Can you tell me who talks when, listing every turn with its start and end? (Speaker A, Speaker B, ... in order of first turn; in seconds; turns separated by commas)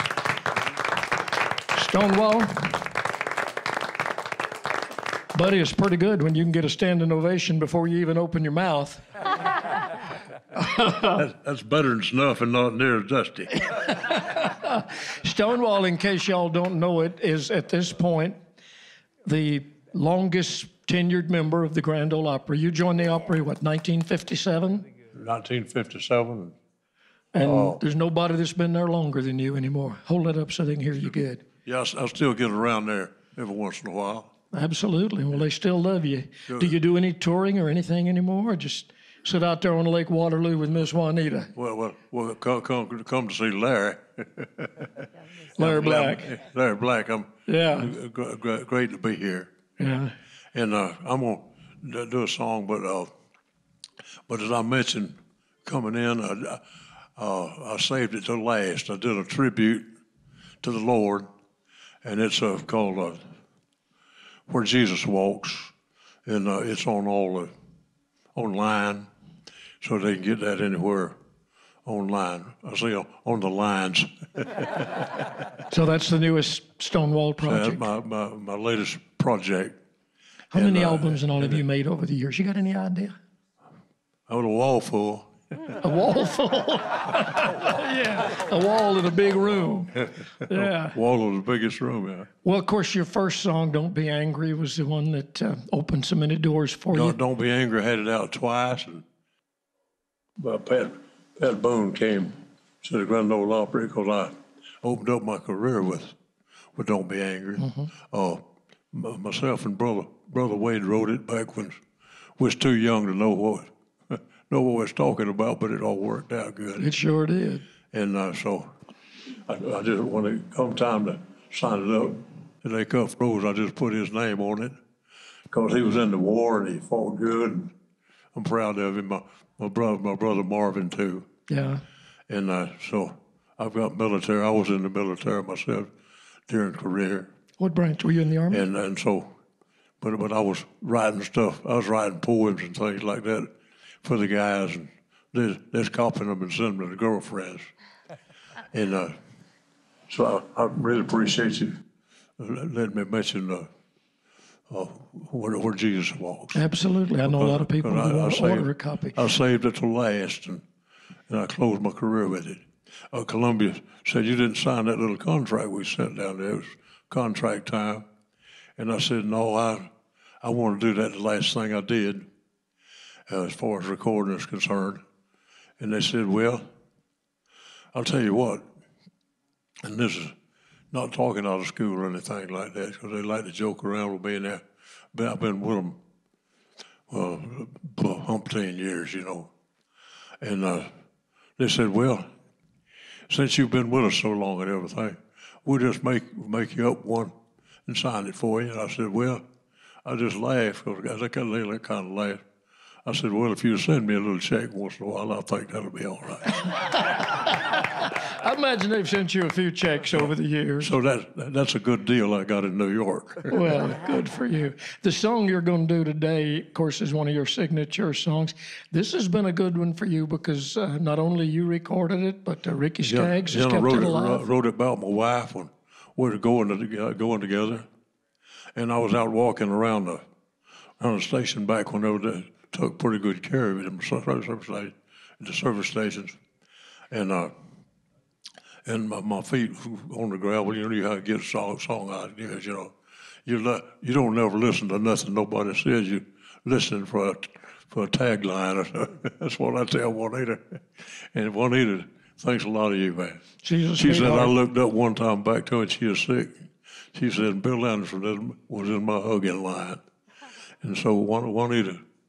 Speaker A: 1.7-2.8, Speaker A: 5.3-9.0, Speaker A: 10.5-11.2, Speaker B: 11.1-13.7, Speaker A: 13.7-18.4, Speaker A: 19.2-24.9, Speaker B: 25.1-26.6, Speaker A: 27.3-31.4, Speaker B: 27.4-27.8, Speaker B: 31.6-34.3, Speaker A: 34.5-41.5, Speaker B: 36.5-36.8, Speaker B: 41.5-45.1, Speaker A: 45.5-46.4, Speaker B: 45.6-49.5, Speaker A: 47.5-47.9, Speaker A: 49.8-50.1, Speaker B: 50.5-53.1, Speaker B: 54.3-56.6, Speaker B: 57.2-59.8, Speaker B: 60.6-61.3, Speaker B: 62.0-63.2, Speaker B: 64.5-65.7, Speaker B: 66.2-67.5, Speaker B: 68.3-69.1, Speaker B: 69.8-71.2, Speaker B: 71.8-75.4, Speaker A: 75.7-77.9, Speaker B: 77.4-79.8, Speaker A: 80.5-83.1, Speaker B: 80.5-81.6, Speaker B: 84.3-85.3, Speaker A: 85.8-91.0, Speaker B: 90.5-92.3, Speaker A: 92.4-97.2, Speaker B: 96.9-99.0, Speaker B: 100.4-106.1, Speaker B: 106.8-111.7, Speaker A: 107.6-107.9, Speaker B: 112.4-116.9, Speaker A: 116.8-117.6, Speaker B: 117.9-118.7, Speaker B: 119.5-124.8, Speaker B: 125.5-127.7, Speaker B: 128.3-131.3, Speaker A: 131.5-131.8, Speaker B: 132.3-135.9, Speaker B: 136.5-137.3, Speaker A: 137.6-138.7, Speaker B: 138.5-139.3, Speaker B: 140.0-143.5, Speaker B: 144.0-147.7, Speaker B: 148.7-149.1, Speaker B: 150.1-151.8, Speaker B: 152.4-153.7, Speaker B: 154.7-156.6, Speaker A: 156.5-159.2, Speaker B: 157.2-160.6, Speaker B: 161.3-168.0, Speaker B: 168.8-169.9, Speaker B: 170.4-172.2, Speaker B: 173.3-175.0, Speaker B: 175.8-176.6, Speaker B: 177.9-178.6, Speaker B: 179.8-180.3, Speaker B: 180.9-184.6, Speaker B: 185.1-186.0, Speaker B: 187.1-189.5, Speaker B: 190.4-190.9, Speaker B: 191.6-192.2, Speaker B: 193.3-197.3, Speaker B: 197.9-199.4, Speaker B: 200.0-202.4, Speaker B: 203.1-206.7, Speaker A: 206.6-210.9, Speaker B: 210.8-213.6, Speaker A: 213.5-224.4, Speaker B: 223.0-227.8, Speaker B: 228.8-230.2, Speaker B: 231.0-236.3, Speaker B: 237.1-237.5, Speaker B: 238.8-242.9, Speaker B: 243.4-250.8, Speaker B: 251.3-253.4, Speaker A: 253.6-254.5, Speaker B: 253.9-260.0, Speaker B: 260.8-262.0